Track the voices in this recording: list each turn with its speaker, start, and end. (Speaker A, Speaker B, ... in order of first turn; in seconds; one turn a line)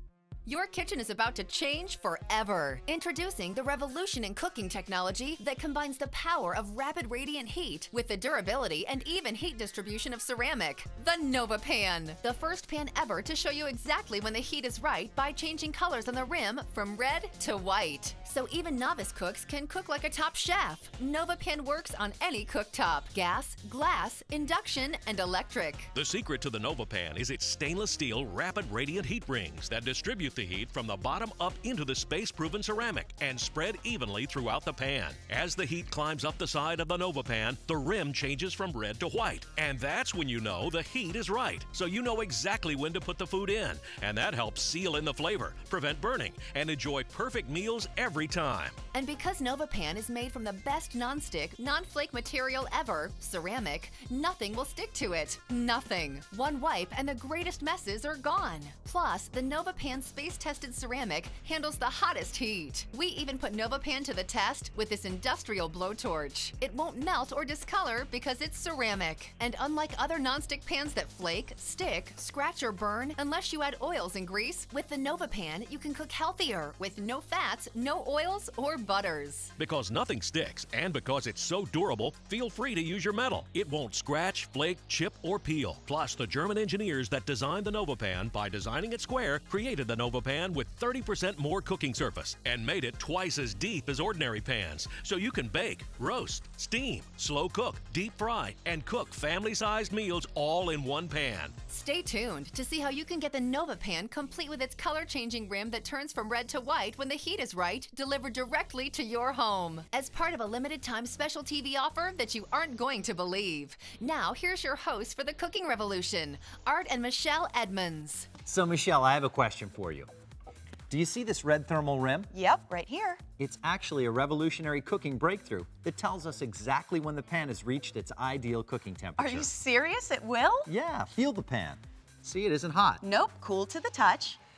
Speaker A: 0.5-25.9
Speaker B: 25.9-48.8
Speaker A: 48.9-79.5
Speaker B: 79.6-101.5
Speaker A: 101.7-118.3
Speaker C: 118.5-120.1
Speaker C: 120.9-122.3
Speaker D: 122.3-123.2
Speaker C: 123.4-129.5
Speaker D: 129.2-130.7
Speaker C: 130.7-133.0
Speaker D: 133.0-134.4